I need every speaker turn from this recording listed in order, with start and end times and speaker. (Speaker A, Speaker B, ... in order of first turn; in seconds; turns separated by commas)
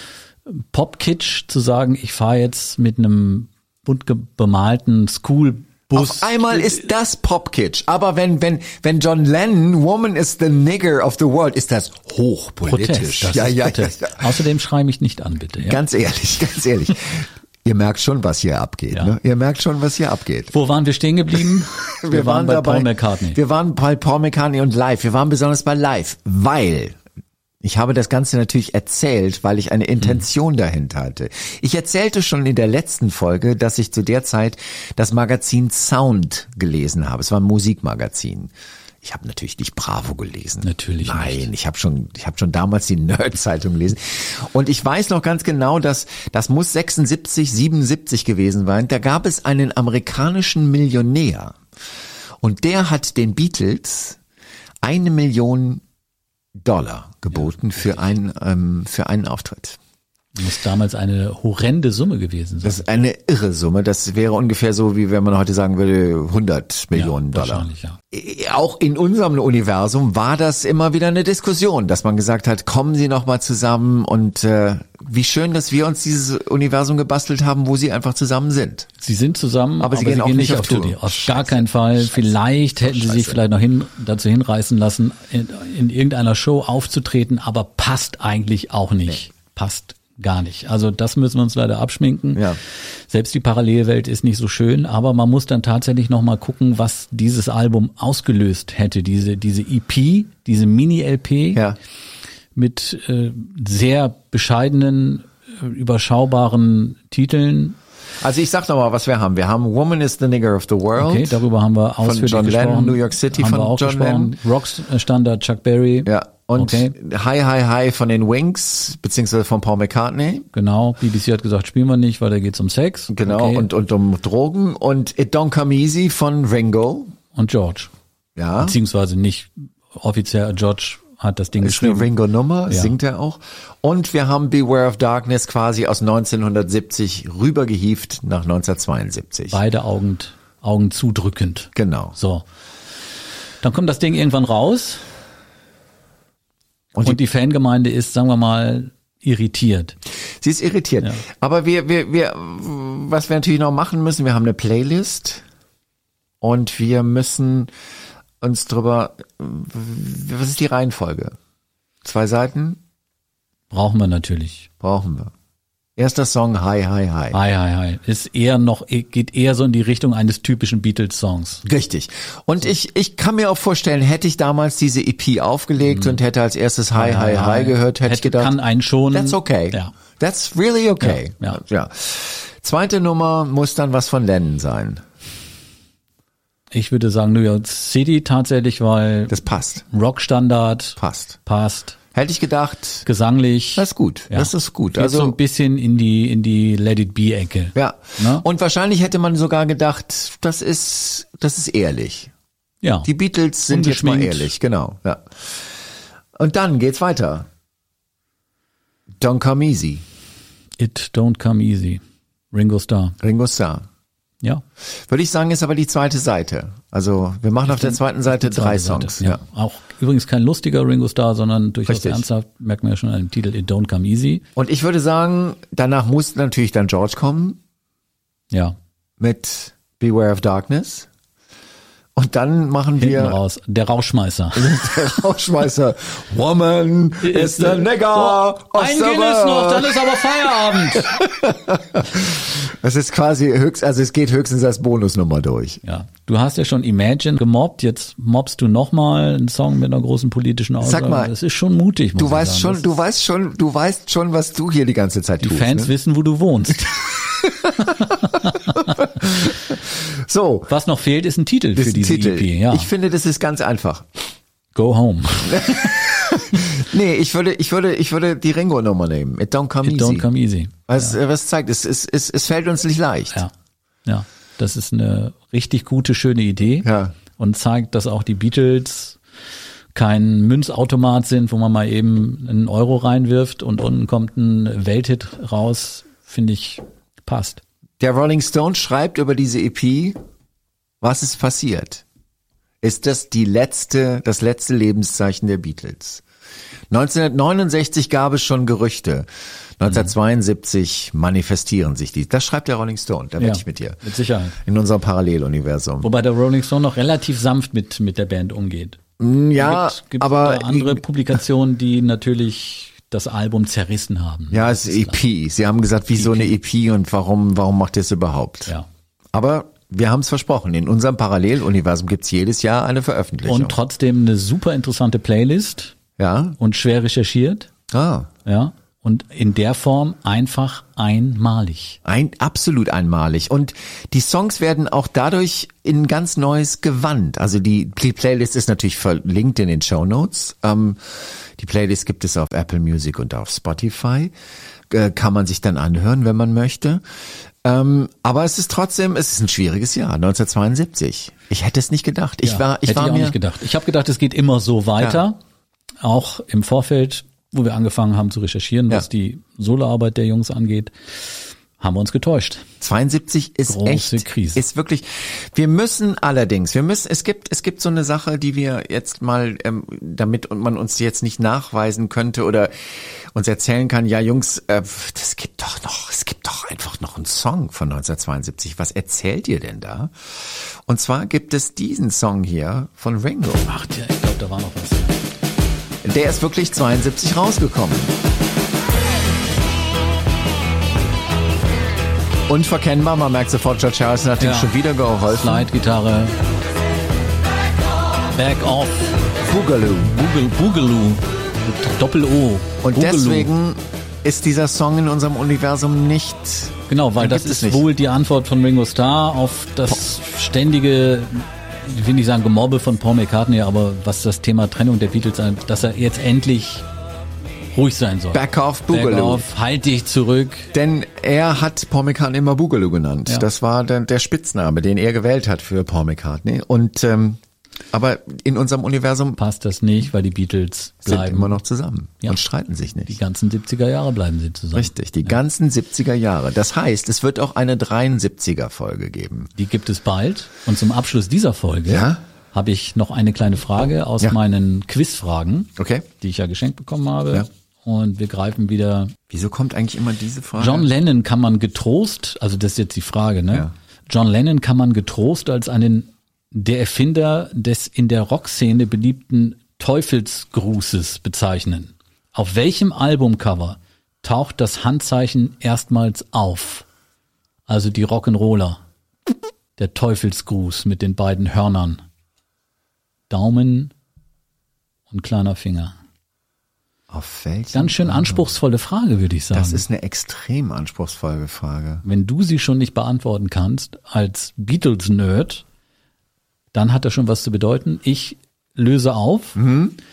Speaker A: 0.5-6.8, Speaker B: 5.9-14.3, Speaker A: 12.7-15.8, Speaker B: 15.6-20.5, Speaker A: 20.5-23.4, Speaker B: 21.8-27.0, Speaker B: 27.6-51.6, Speaker A: 40.6-41.5, Speaker B: 52.4-54.2, Speaker B: 54.8-55.8, Speaker B: 56.6-59.8, Speaker A: 60.4-62.8, Speaker B: 62.6-78.9, Speaker A: 66.9-68.0, Speaker A: 79.0-92.5, Speaker B: 79.8-83.4, Speaker A: 93.1-101.6, Speaker A: 102.5-107.8, Speaker B: 108.2-111.4, Speaker A: 111.0-116.9, Speaker B: 112.0-114.3, Speaker B: 116.0-120.5, Speaker A: 120.5-123.7, Speaker B: 123.1-127.2, Speaker A: 127.3-127.9, Speaker B: 128.3-128.8, Speaker A: 128.6-132.1, Speaker B: 131.6-139.6, Speaker A: 132.7-132.9, Speaker A: 139.5-142.4, Speaker B: 141.7-142.2, Speaker A: 143.6-145.0, Speaker A: 147.0-149.9, Speaker B: 150.4-155.4, Speaker B: 156.4-157.7, Speaker B: 158.4-161.3, Speaker B: 162.0-162.8, Speaker A: 163.7-164.7, Speaker B: 164.8-165.3, Speaker B: 165.9-167.4, Speaker A: 167.3-171.6, Speaker B: 171.6-178.5, Speaker A: 175.9-176.2, Speaker A: 176.9-179.9, Speaker B: 179.1-185.0, Speaker A: 181.0-181.6, Speaker A: 186.7-192.0, Speaker B: 189.3-189.8, Speaker B: 191.0-191.4, Speaker B: 192.1-193.1, Speaker A: 193.1-198.4, Speaker B: 193.8-195.3, Speaker B: 197.7-202.3, Speaker A: 202.8-203.1, Speaker B: 203.0-205.8, Speaker A: 203.7-204.5, Speaker B: 206.3-207.5, Speaker B: 209.2-210.0, Speaker A: 210.8-212.0, Speaker A: 212.5-213.2, Speaker B: 213.2-213.8, Speaker B: 215.1-219.4, Speaker A: 217.7-224.4, Speaker B: 221.9-222.2, Speaker B: 224.6-227.6, Speaker B: 229.2-231.1, Speaker B: 232.1-233.4, Speaker A: 233.0-234.8, Speaker B: 234.5-240.1, Speaker A: 237.2-241.2, Speaker B: 240.9-245.8, Speaker A: 245.8-252.9, Speaker B: 250.8-251.3, Speaker B: 252.2-255.9, Speaker A: 255.4-257.3, Speaker B: 257.1-260.7, Speaker A: 257.9-259.0, Speaker A: 260.7-262.9, Speaker B: 261.7-264.2, Speaker A: 264.7-266.1, Speaker B: 265.4-270.3, Speaker A: 269.8-271.1, Speaker B: 270.9-273.4, Speaker A: 274.1-279.2, Speaker B: 276.8-277.1, Speaker A: 279.9-287.6, Speaker B: 288.0-290.2, Speaker B: 291.0-292.0, Speaker B: 292.8-296.2, Speaker B: 296.9-299.3, Speaker B: 299.8-304.0, Speaker A: 303.4-304.6, Speaker B: 304.6-306.1, Speaker A: 306.0-309.0, Speaker B: 309.2-311.0, Speaker A: 309.6-315.2, Speaker B: 314.5-318.7, Speaker A: 316.1-316.6, Speaker B: 319.3-323.8, Speaker A: 323.4-325.9, Speaker B: 326.2-326.6, Speaker A: 326.6-327.7, Speaker B: 327.9-328.3, Speaker A: 328.4-332.0, Speaker B: 332.0-344.3, Speaker B: 344.9-347.0, Speaker B: 347.6-353.4, Speaker A: 352.4-355.4, Speaker A: 356.0-362.6, Speaker B: 362.8-383.6, Speaker A: 363.7-364.6, Speaker A: 383.6-385.2, Speaker B: 386.0-388.1, Speaker B: 392.5-395.7, Speaker A: 394.4-396.4, Speaker A: 398.3-399.3, Speaker B: 399.4-400.1, Speaker A: 400.1-403.5, Speaker B: 402.8-407.8, Speaker A: 406.9-416.9, Speaker A: 417.7-420.7, Speaker B: 418.3-419.4, Speaker B: 420.7-427.4, Speaker B: 427.9-429.4, Speaker A: 429.4-431.6, Speaker B: 431.1-433.1, Speaker A: 433.1-435.4, Speaker B: 434.7-439.5, Speaker A: 439.6-449.1, Speaker B: 441.9-442.2, Speaker B: 445.8-446.1, Speaker B: 449.3-450.9, Speaker A: 450.6-466.8, Speaker A: 467.7-468.8, Speaker A: 469.8-472.0, Speaker A: 473.3-473.9, Speaker A: 475.1-475.9, Speaker B: 477.1-478.5, Speaker A: 477.7-479.8, Speaker B: 479.5-482.0, Speaker A: 482.0-485.6, Speaker A: 486.7-489.6, Speaker B: 489.6-490.0